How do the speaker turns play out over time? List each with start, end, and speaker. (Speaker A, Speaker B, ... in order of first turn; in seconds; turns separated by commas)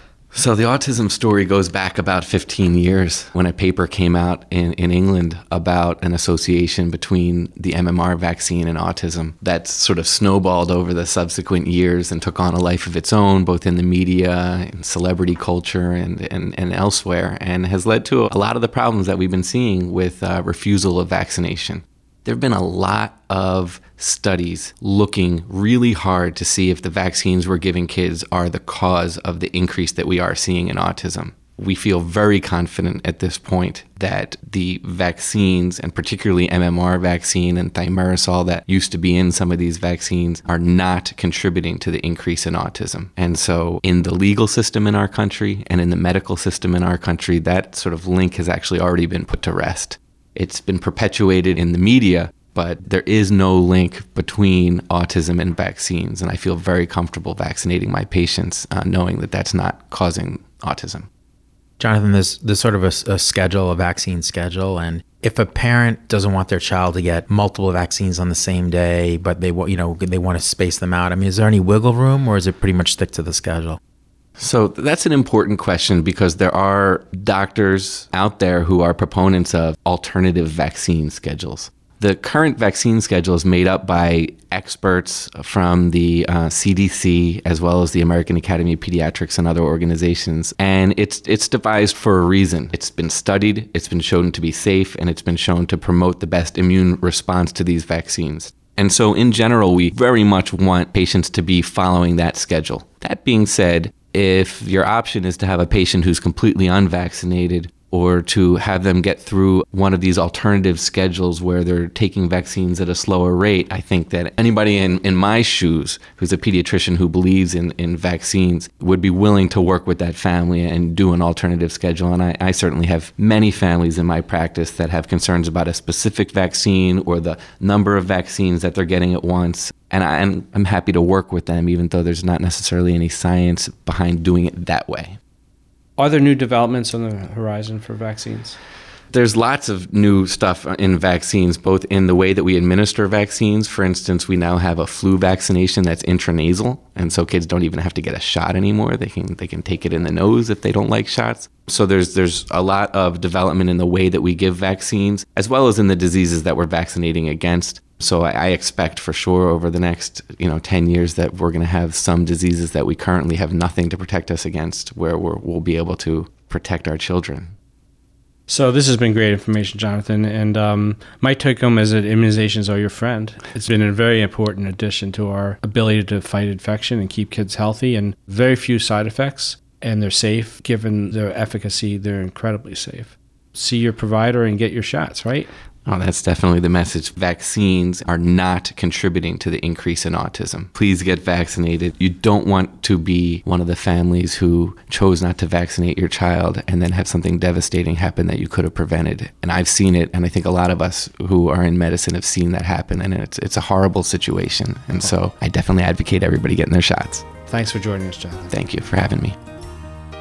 Speaker A: 0.3-61.1, Speaker B: 61.8-73.8, Speaker A: 74.4-135.2, Speaker C: 136.0-138.6, Speaker A: 139.1-167.5, Speaker C: 168.5-185.5, Speaker A: 185.9-207.3, Speaker C: 207.5-208.5, Speaker A: 208.5-209.4